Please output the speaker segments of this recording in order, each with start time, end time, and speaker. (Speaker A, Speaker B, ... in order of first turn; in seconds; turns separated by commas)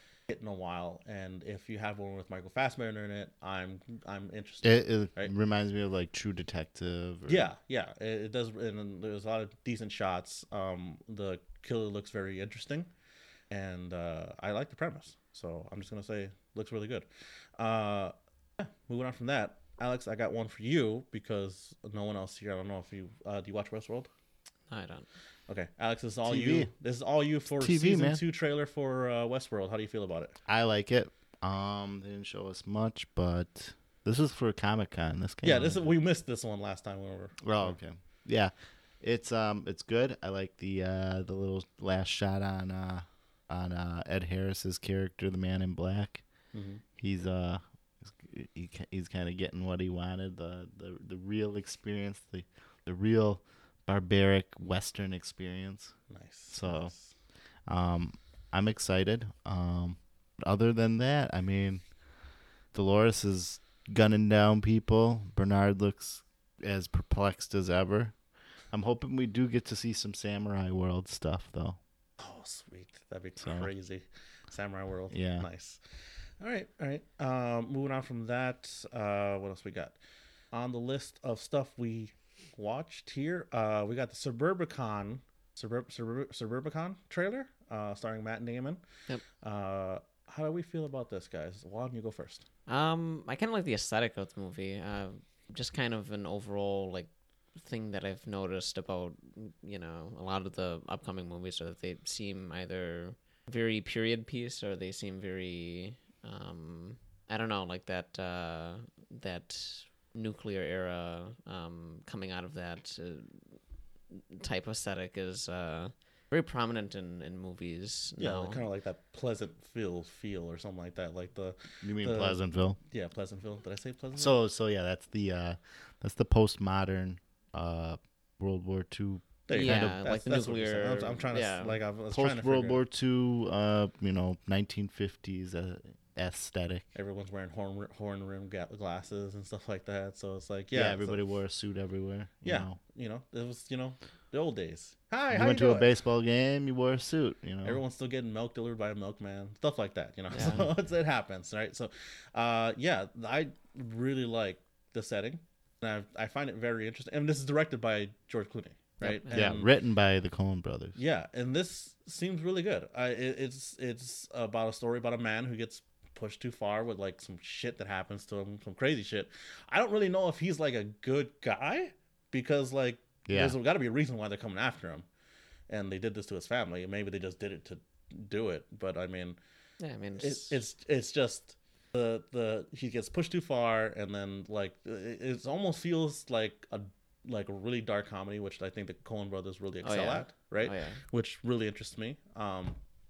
Speaker A: 0.3-5.3, Speaker B: 4.6-7.5, Speaker A: 7.3-12.9, Speaker A: 13.5-17.1, Speaker A: 17.6-24.1, Speaker C: 24.7-25.1, Speaker A: 25.5-30.3, Speaker B: 26.2-26.7, Speaker B: 27.6-28.2, Speaker B: 30.4-35.9, Speaker A: 35.4-37.8, Speaker B: 37.4-46.2, Speaker A: 46.5-46.8, Speaker B: 47.0-56.9, Speaker A: 56.1-57.1, Speaker B: 57.6-61.9, Speaker B: 62.7-68.2, Speaker B: 68.7-71.8, Speaker A: 72.2-75.8, Speaker B: 73.4-73.7, Speaker B: 75.1-75.5, Speaker A: 76.4-80.0, Speaker A: 80.5-88.8, Speaker A: 89.4-92.4, Speaker C: 92.7-113.4, Speaker C: 114.1-118.6, Speaker A: 118.2-124.3, Speaker B: 121.8-122.8, Speaker B: 124.1-130.0, Speaker A: 129.5-132.8, Speaker C: 129.5-131.8, Speaker B: 132.1-136.8, Speaker A: 136.9-141.2, Speaker B: 140.7-142.8, Speaker A: 142.4-145.9, Speaker B: 145.3-147.8, Speaker A: 147.6-159.7, Speaker C: 150.3-150.6, Speaker B: 150.4-150.7, Speaker C: 159.0-159.6, Speaker B: 159.3-161.0, Speaker A: 160.9-175.1, Speaker B: 173.2-173.6, Speaker A: 175.7-179.4, Speaker C: 179.8-180.6, Speaker A: 180.2-192.8, Speaker C: 189.8-191.0